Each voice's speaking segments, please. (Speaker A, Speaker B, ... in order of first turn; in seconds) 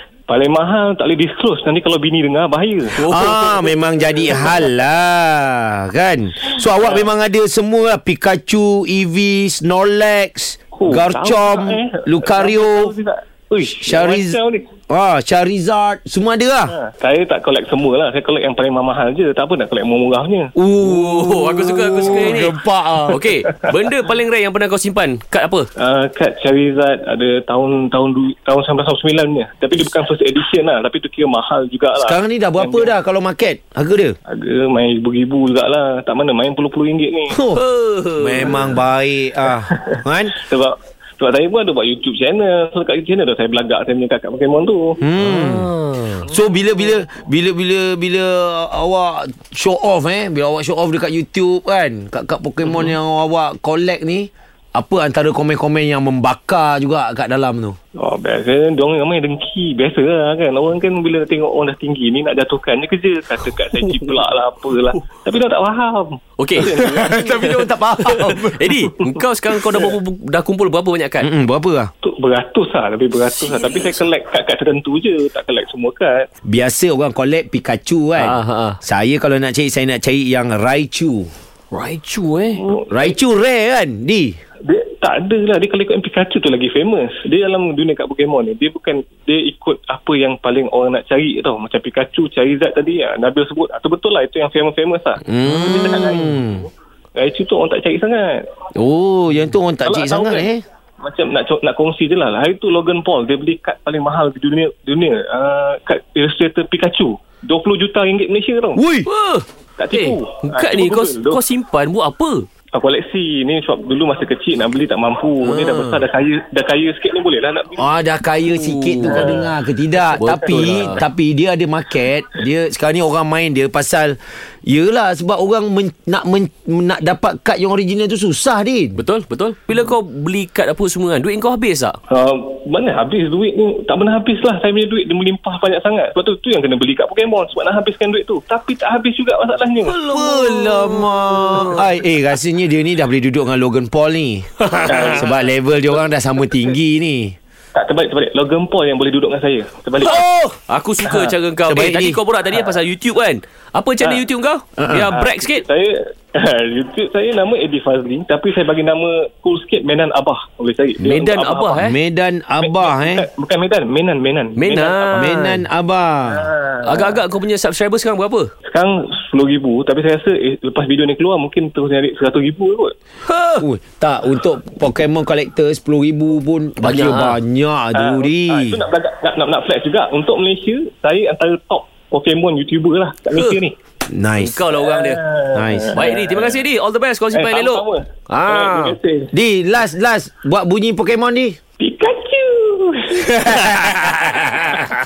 Speaker A: 0.3-3.0, 6.8-7.1, 10.7-14.7, 16.7-20.5, 25.8-33.0, 34.3-37.4, 38.4-38.8, 39.6-45.0, 58.0-67.6, 69.7-69.9, 72.0-76.3, 82.6-83.2, 84.6-98.5, 99.8-108.8, 109.8-111.4, 112.7-117.9, 119.1-119.5, 132.1-140.0, 144.9-145.5, 147.7-150.2, 151.1-151.3, 155.1-161.9, 162.6-165.3, 166.3-167.2, 168.7-172.9, 177.9-183.8, 184.7-186.6, 187.3-189.3, 191.8-193.3
Speaker B: 2.9-3.7, 20.8-25.7, 37.5-38.6, 45.2-46.2, 66.4-66.7, 67.3-71.3, 73.5-73.9, 78.2-78.8, 81.7-82.7, 109.1-112.5, 118.5-119.5, 120.2-121.0, 129.0-132.0, 139.9-141.9, 144.6-145.2, 150.0-155.6, 161.0-162.0, 164.6-165.7, 166.8-168.5, 173.2-173.7, 176.8-177.4, 183.3-183.6, 184.4-185.2, 185.9-189.0
Speaker C: 2.9-12.9, 13.6-14.4, 14.9-16.7, 20.6-23.3, 32.0-34.2, 37.3-37.6, 38.2-40.4, 45.0-45.7, 46.2-57.8, 66.7-68.9, 71.2-71.9, 76.4-81.3, 82.9-84.4, 95.2-96.7, 98.8-100.6, 108.8-109.1, 115.5-115.8, 117.8-129.0, 139.9-147.4, 150.0-150.6, 151.7-152.2, 154.8-155.1, 161.8-163.3, 165.1-166.5, 173.6-178.8, 184.1-184.6, 185.5-186.0, 189.3-191.6, 193.1-194.9